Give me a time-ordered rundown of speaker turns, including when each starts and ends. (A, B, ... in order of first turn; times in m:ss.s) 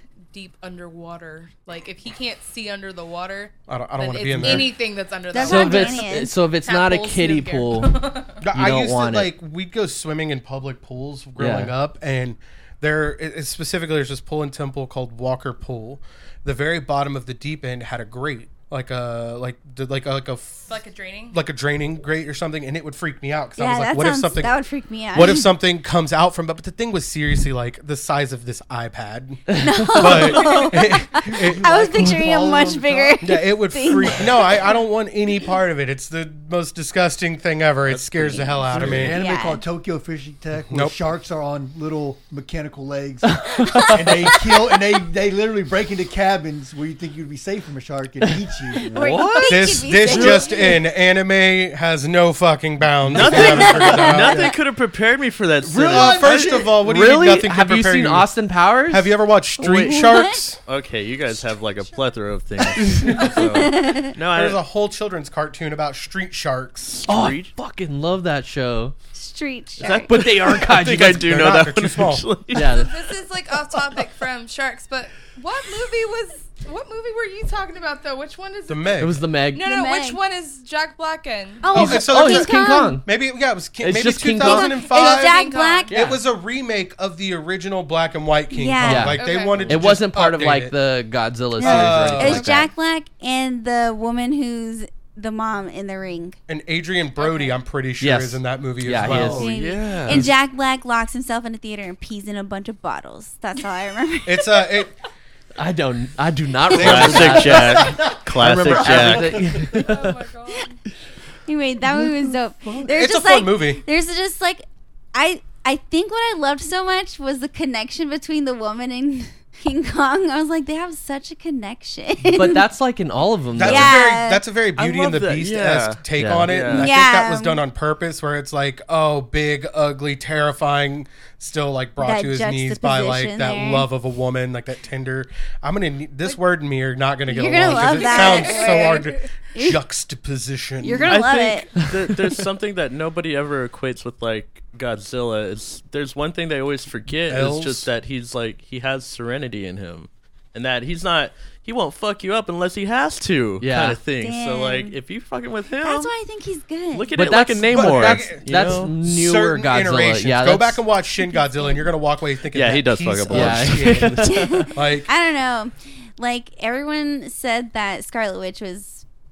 0:00.3-0:08.4 A
0:03.7-0:04.7 B
0:05.3-0:06.3 C
0:05.4-0:09.3 D
0:08.4-0:20.8 B
0:11.4-0:11.8 D
0:20.7-0:21.4 A
0:21.3-0:24.6 B
0:23.6-0:25.5 C
0:25.1-0:31.6 B
0:29.5-0:30.2 D
0:29.6-0:34.7 C
0:31.1-0:33.4 E
0:33.2-0:39.2 B
0:37.9-0:39.1 F
0:38.3-0:39.6 C
0:38.7-0:49.2 E
0:40.7-0:41.0 B
0:43.3-0:44.1 D
0:43.7-0:44.0 C
0:48.8-0:50.8 C
0:48.9-0:49.7 D
0:49.5-0:54.5 B
0:50.1-0:50.4 E
0:53.1-0:56.5 F
0:53.3-0:54.5 C
0:54.2-0:54.5 E
0:55.6-0:56.8 E
0:55.9-0:58.3 B
0:56.8-0:59.1 D
0:58.9-1:00.6 B
0:59.6-1:00.1 F
0:59.7-1:00.4 C
1:00.6-1:04.6 F
1:02.9-1:03.5 B
1:03.4-1:04.1 C
1:04.3-1:07.0 B
1:06.9-1:07.5 F
1:07.1-1:09.0 D
1:09.1-1:10.1 C
1:09.8-1:12.9 F
1:09.9-1:11.3 D
1:10.9-1:12.3 B
1:12.5-1:13.0 D
1:12.6-1:21.7 A
1:18.7-1:19.2 B
1:19.0-1:19.7 D
1:19.6-1:20.2 C
1:21.6-1:23.0 C
1:21.7-1:23.1 D
1:21.7-1:30.8 B
1:23.8-1:24.9 D
1:24.4-1:25.9 C
1:24.8-1:25.9 A
1:25.9-1:26.2 D
1:28.5-1:29.2 C
1:28.8-1:32.7 D
1:29.1-1:29.7 A
1:29.6-1:29.9 F
1:31.6-1:32.6 B
1:31.6-1:36.4 C
1:36.5-1:39.6 B
1:37.2-1:37.6 A
1:38.0-1:39.5 D
1:39.0-1:39.5 E
1:39.3-1:44.4 C
1:39.4-1:40.3 F
1:44.2-1:45.0 B
1:45.6-1:50.2 D
1:46.7-1:49.4 F
1:46.7-1:47.6 B
1:47.5-1:49.9 E
1:49.6-1:50.8 A
1:51.5-2:02.6 C
1:51.8-1:52.9 E
1:52.9-1:53.8 B
2:02.3-2:04.0 D
2:03.6-2:21.2 B
2:03.6-2:04.4 C
2:04.8-2:06.9 F
2:06.2-2:06.7 D
2:06.7-2:07.6 C
2:12.0-2:13.9 C
2:17.3-2:19.8 C
2:17.8-2:19.3 A
2:20.8-2:21.7 C
2:21.1-2:36.1 F
2:21.8-2:22.0 D
2:27.3-2:27.9 B
2:33.6-2:34.0 D
2:34.2-2:35.0 C
2:35.8-2:37.1 C
2:36.9-2:38.9 F
2:37.1-2:40.8 D
2:37.7-2:45.1 B
2:41.3-2:41.8 C
2:42.5-2:44.7 F
2:43.3-2:44.5 D
2:44.2-2:49.0 C